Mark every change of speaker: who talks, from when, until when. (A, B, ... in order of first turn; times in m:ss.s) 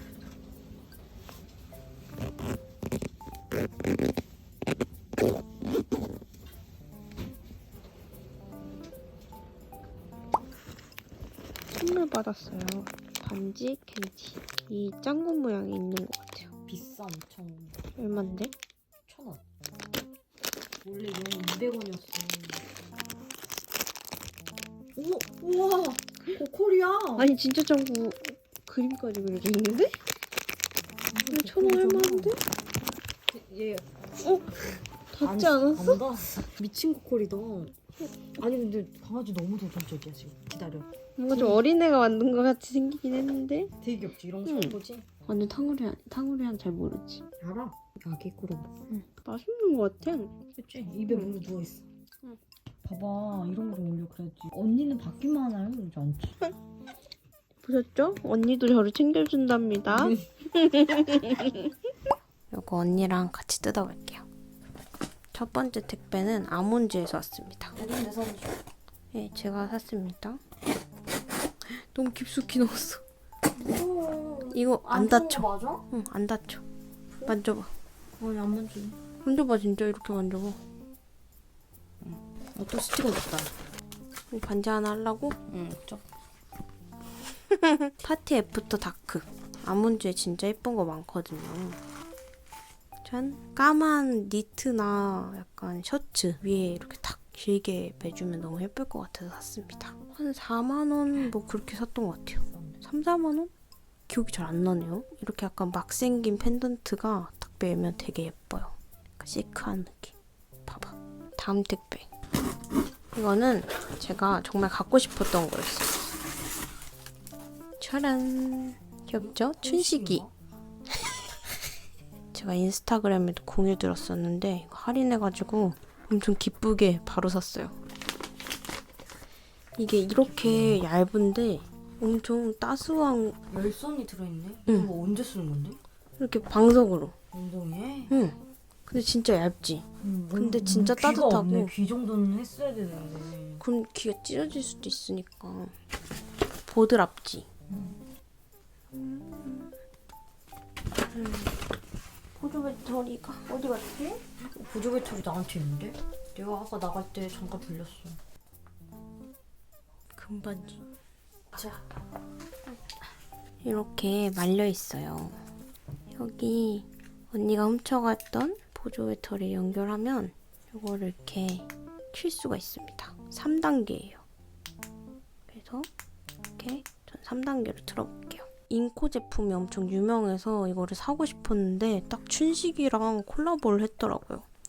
0:11.7-0:16.5 A
0:16.6-0:17.8 B
0:18.0-0:18.5 A
0:19.1-0:19.4 B
0:20.8-0:22.6 B
0:25.0-0:27.3 B
0:27.2-0:30.0 A
0:31.1-0:32.4 B
0:31.3-0:32.4 A
0:33.3-0:33.9 B
0:34.2-0:34.5 A
0:35.1-0:36.0 A
0:35.2-0:37.7 B
0:38.4-0:41.6 B
0:41.2-0:43.7 A
0:43.8-0:45.0 B
0:44.4-0:47.2 A
0:47.4-0:48.7 B
0:48.9-0:50.3 A
0:50.6-0:51.8 B
0:51.0-0:51.3 A
0:52.8-0:56.4 B
0:57.6-1:01.7 A
0:59.9-1:00.2 B
1:02.5-1:04.2 A
1:05.3-1:07.8 A
1:07.8-1:08.6 B
1:09.1-1:10.4 A
1:11.6-1:13.0 A
1:13.6-1:15.8 B
1:14.5-1:16.6 A
1:17.2-1:17.7 A
1:18.2-1:19.0 B
1:19.2-1:20.6 A
1:22.0-1:23.5 B
1:24.3-1:25.4 A
1:25.5-1:26.0 B
1:27.9-1:31.8 A
1:33.0-1:43.5 A
1:42.5-1:42.8 B
1:44.1-1:50.1 A
1:50.7-1:52.1 A
1:53.1-1:56.1 A
1:57.8-2:00.2 A
1:59.2-2:00.3 B
2:02.3-2:07.8 A
2:09.8-2:13.4 A
2:10.2-2:10.8 B
2:13.5-2:15.8 B
2:16.2-2:17.1 A
2:17.3-2:18.1 B
2:18.1-2:21.7 A
2:20.0-2:23.6 B
2:23.6-2:25.7 A
2:26.6-2:27.5 A
2:28.9-2:29.7 A
2:31.1-2:31.6 A
2:32.4-2:34.2 A
2:34.4-2:38.2 B
2:40.1-2:40.8 A
2:41.5-2:41.8 B
2:43.6-2:45.4 A
2:46.1-2:54.2 A
2:55.5-2:55.9 A
2:56.6-3:04.5 A